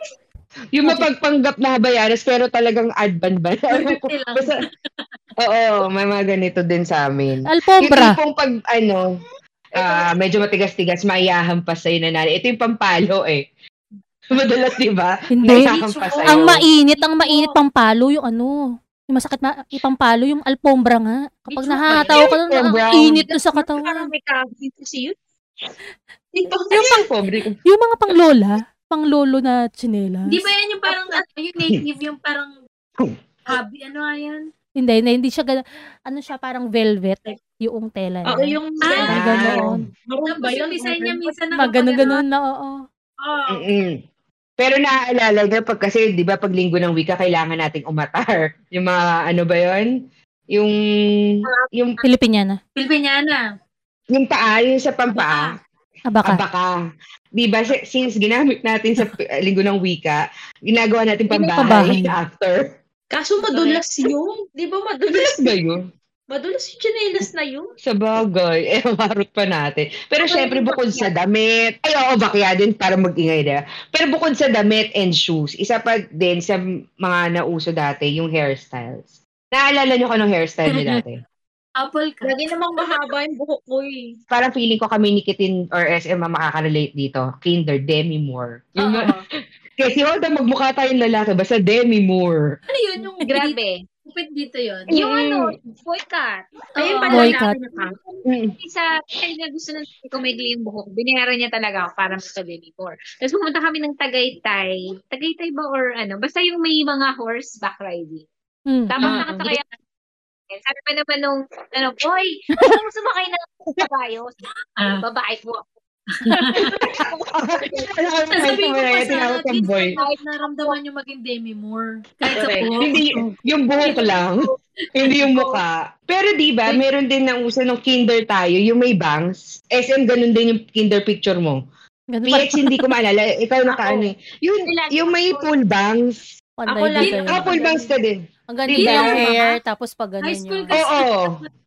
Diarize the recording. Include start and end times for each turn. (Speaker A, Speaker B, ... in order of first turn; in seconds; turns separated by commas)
Speaker A: 0.7-4.6, Speaker B: 3.7-5.0, Speaker A: 5.4-9.1, Speaker C: 7.5-8.2, Speaker A: 9.8-13.4, Speaker A: 14.3-16.6, Speaker C: 15.3-18.6, Speaker D: 16.1-16.5, Speaker D: 17.2-17.5, Speaker C: 19.1-24.1, Speaker B: 21.5-22.2, Speaker D: 21.9-22.4, Speaker A: 22.4-23.2, Speaker D: 22.9-25.2, Speaker D: 26.3-27.1, Speaker A: 26.7-27.6, Speaker C: 27.6-30.5, Speaker B: 30.3-32.5, Speaker D: 30.9-31.2, Speaker B: 33.5-34.4, Speaker C: 34.8-39.8, Speaker D: 38.2-41.4, Speaker B: 38.8-39.2, Speaker A: 39.1-39.8, Speaker B: 40.2-42.2, Speaker C: 41.5-42.8, Speaker B: 43.2-43.7, Speaker A: 43.5-44.0, Speaker A: 44.6-49.9, Speaker A: 50.5-52.0, Speaker C: 52.0-52.6, Speaker B: 52.8-53.4, Speaker A: 54.1-55.5, Speaker C: 56.1-56.4, Speaker A: 56.2-56.7, Speaker A: 57.4-62.7, Speaker D: 61.5-61.9, Speaker C: 61.6-62.1, Speaker D: 63.1-65.6, Speaker B: 63.4-63.8, Speaker A: 65.1-65.8, Speaker D: 66.3-67.7, Speaker A: 67.8-81.2, Speaker D: 70.2-71.1, Speaker B: 81.8-82.9, Speaker D: 82.2-84.1, Speaker A: 84.3-89.1, Speaker B: 88.8-89.2, Speaker A: 89.8-92.5, Speaker B: 92.7-94.9, Speaker E: 93.2-93.8, Speaker E: 94.9-97.9, Speaker A: 94.9-95.5, Speaker D: 96.8-98.0, Speaker B: 96.8-97.3, Speaker C: 97.1-97.5, Speaker A: 98.2-98.6, Speaker E: 98.6-108.2, Speaker C: 108.7-108.9, Speaker E: 108.9-109.7, Speaker A: 109.0-109.5, Speaker E: 110.5-114.3, Speaker B: 114.8-115.0, Speaker E: 115.0-115.7, Speaker B: 116.2-116.7, Speaker A: 116.5-119.9, Speaker E: 116.8-117.1, Speaker B: 118.3-123.3, Speaker E: 119.9-120.8, Speaker D: 122.3-122.7, Speaker A: 122.8-131.6, Speaker E: 123.9-124.2, Speaker B: 123.9-124.2, Speaker E: 125.3-125.6, Speaker C: 132.1-132.9, Speaker A: 132.3-136.3, Speaker E: 133.7-134.1, Speaker E: 134.7-135.5, Speaker C: 136.6-137.5, Speaker D: 136.7-137.9, Speaker A: 137.1-138.2, Speaker C: 138.5-140.7, Speaker A: 138.7-139.2, Speaker B: 138.8-139.5, Speaker B: 140.2-141.5, Speaker A: 140.7-141.4